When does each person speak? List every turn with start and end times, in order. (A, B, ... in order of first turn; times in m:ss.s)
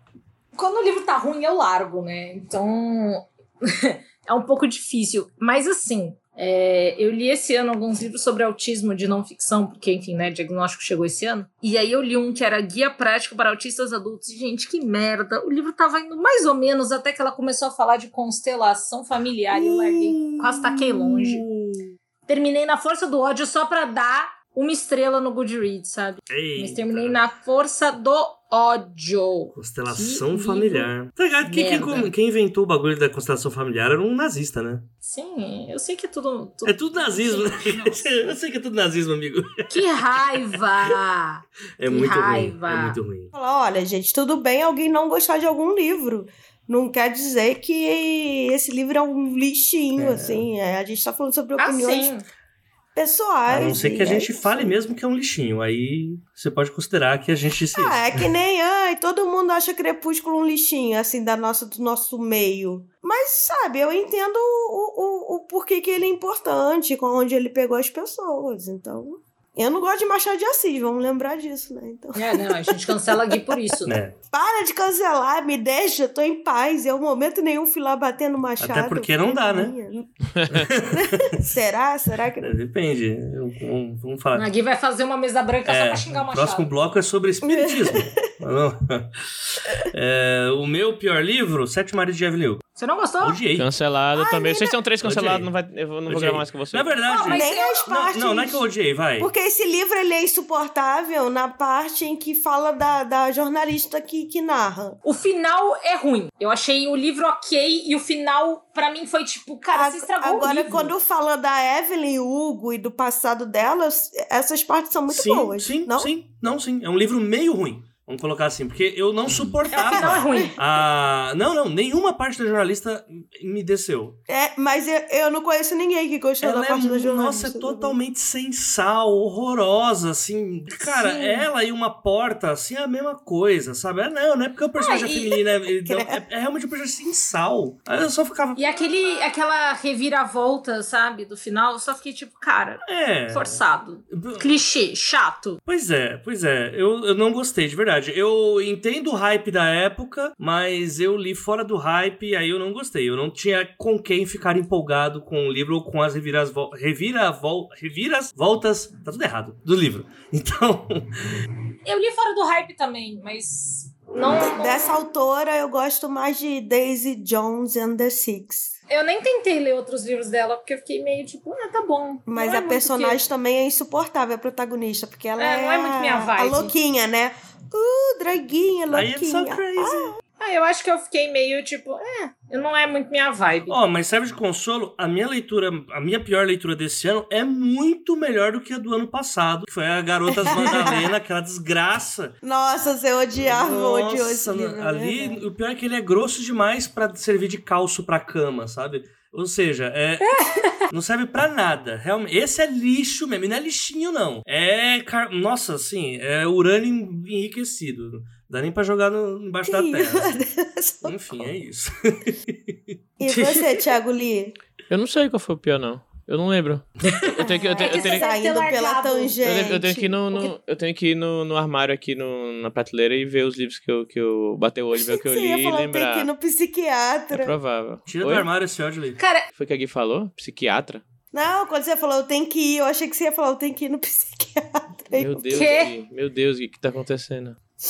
0:00.5-0:21.4 A
0:19.9-0:21.9 B
0:22.3-0:30.9 A
0:26.3-0:27.2 B
0:29.5-0:34.9 B
0:31.4-0:32.1 A
0:35.0-0:38.3 A
0:36.6-0:39.7 B
0:39.7-0:43.0 A
0:41.8-0:43.3 B
0:43.3-0:52.1 C
0:50.0-0:50.4 B
0:51.6-0:52.2 A
0:53.0-0:54.8 C
0:53.5-0:58.0 B
0:57.7-1:13.6 C
1:12.1-1:14.0 A
1:13.8-1:14.2 B
1:14.3-1:20.1 C
1:18.6-1:19.7 B
1:20.5-1:21.3 B
1:20.6-1:22.5 C
1:22.4-1:24.5 B
1:24.3-1:26.7 A
1:25.6-1:32.6 B
1:27.4-1:28.3 C
1:32.8-1:33.4 A
1:33.2-1:33.7 B
1:33.6-1:37.0 D
1:34.1-1:34.8 C
1:35.0-1:35.5 B
1:36.1-1:39.3 B
1:37.0-1:37.9 A
1:37.2-1:38.6 C
1:39.2-1:45.0 C
1:45.0-1:50.9 A
1:49.7-1:56.1 C
1:55.1-2:04.2 B
1:59.7-2:00.6 A
1:59.7-2:00.5 C
2:04.3-2:08.0 C
2:06.4-2:18.6 B
2:10.8-2:11.4 C
2:11.0-2:11.4 A
2:14.8-2:15.4 A
2:15.7-2:16.2 C
2:18.6-2:25.6 A
2:22.8-2:23.6 B
2:24.1-2:24.5 B
2:25.6-2:41.2 B
2:41.8-2:44.9 A
2:44.2-2:48.7 C
2:48.9-2:53.2 A
2:52.3-3:00.2 C
2:55.4-2:56.7 A
2:58.9-3:00.1 B
3:00.4-3:03.8 A
3:03.7-3:12.4 B
3:10.3-3:11.1 C
3:12.4-3:15.4 C
3:13.4-3:30.3 B
3:20.2-3:20.8 A
3:29.6-3:31.5 C
3:31.0-3:33.8 B
3:33.2-3:34.5 C
3:34.9-3:38.3 D
3:37.4-3:40.5 C
3:37.7-3:39.4 A
3:39.4-3:46.3 D
3:44.9-3:47.6 C
3:47.3-3:48.5 D
3:48.0-3:49.2 B
3:49.2-3:49.5 A
3:49.5-3:51.0 D
3:51.3-3:55.8 C
3:55.2-3:57.6 D
3:55.5-3:55.9 A